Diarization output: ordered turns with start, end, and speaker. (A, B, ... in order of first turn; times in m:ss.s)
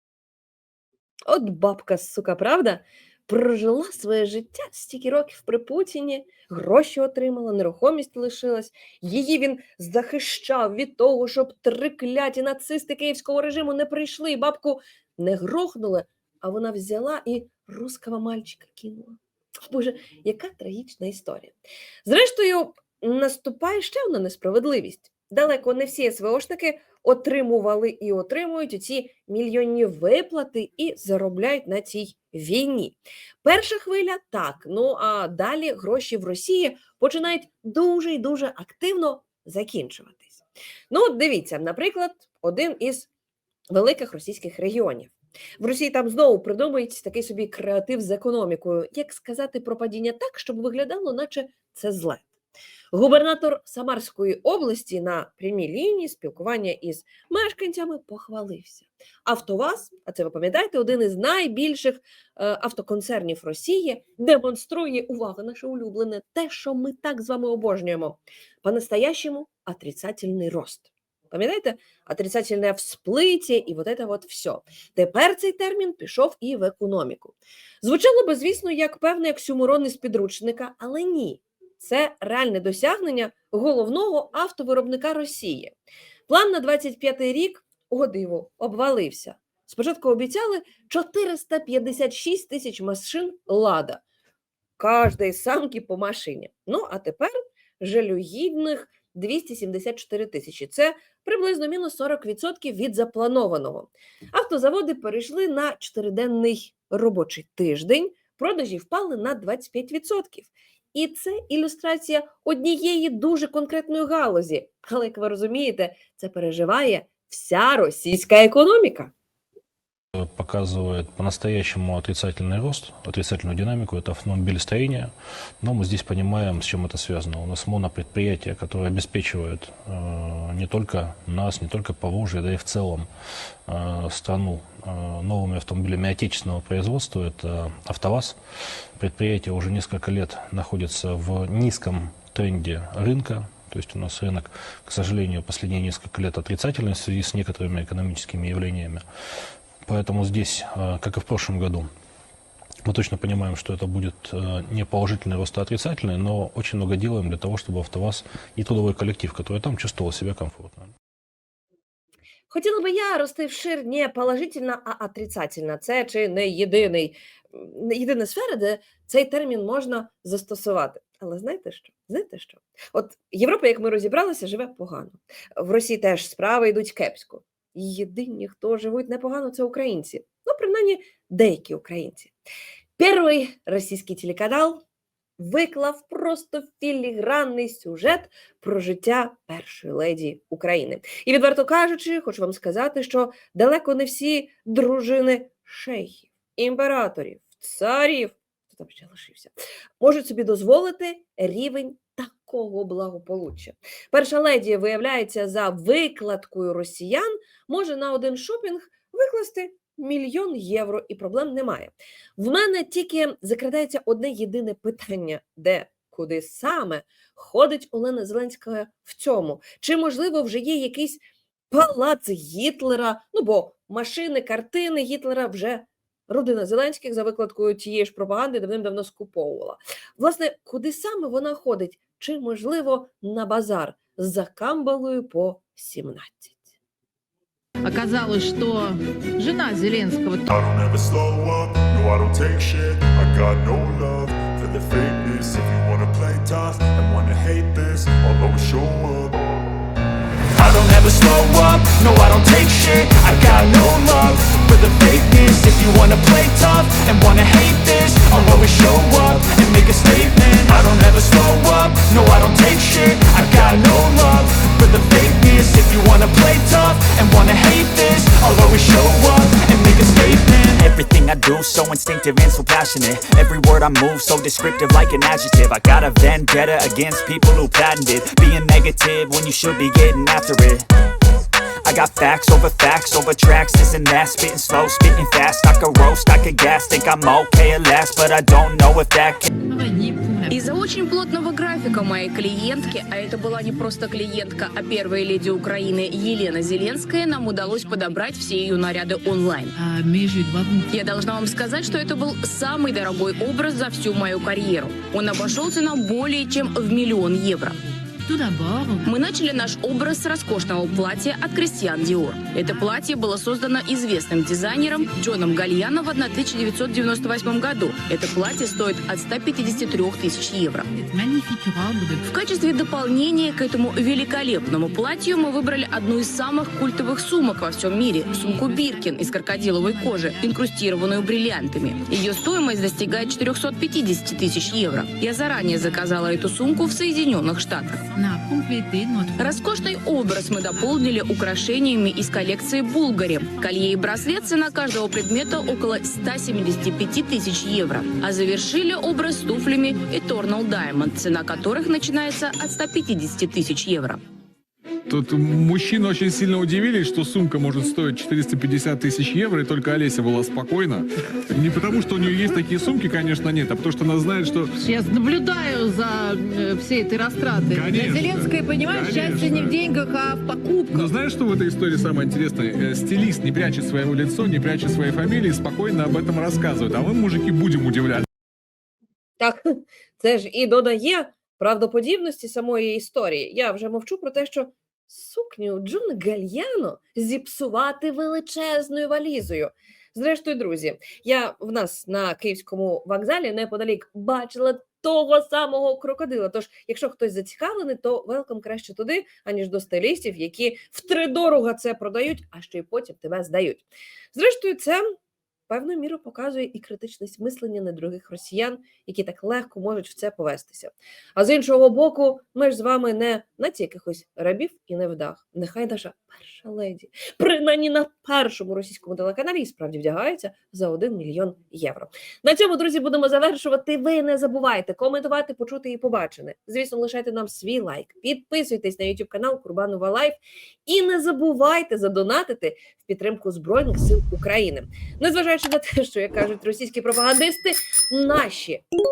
0:01.3-0:43.1 A
0:43.7-0:52.3 A
0:52.9-1:25.7 A
1:26.3-1:34.0 A
1:34.8-1:59.1 A
2:00.2-2:13.1 B
2:13.7-2:18.4 B
2:19.0-2:29.0 B
2:29.8-2:31.9 B
2:32.8-2:40.9 B
2:42.5-3:02.4 A
3:03.0-3:04.8 A
3:05.4-3:56.7 A
3:57.8-4:00.5 C
4:00.5-4:09.7 D
4:10.6-4:30.8 D
4:30.7-4:40.9 E
4:41.9-4:49.5 E
4:49.5-4:50.7 C
4:50.5-4:59.7 F
4:52.6-4:53.5 C
4:57.8-4:58.2 C
4:59.7-5:01.7 C
5:00.9-5:07.8 F
5:08.0-5:09.1 C
5:09.0-5:20.9 F
5:12.6-5:12.9 C
5:15.0-5:16.8 C
5:19.6-5:20.0 C
5:20.9-5:22.3 C
5:22.3-5:38.1 F
5:24.6-5:25.3 C
5:28.3-5:30.6 C
5:31.2-5:33.4 C
5:35.9-5:36.9 C
5:38.1-5:39.8 C
5:39.4-5:54.2 F
5:40.8-5:41.5 C
5:43.4-5:46.9 C
5:55.1-6:04.7 G
6:04.8-6:11.1 C
6:07.7-6:09.8 G
6:10.9-6:18.3 G
6:19.4-6:45.1 A
6:45.7-7:18.8 A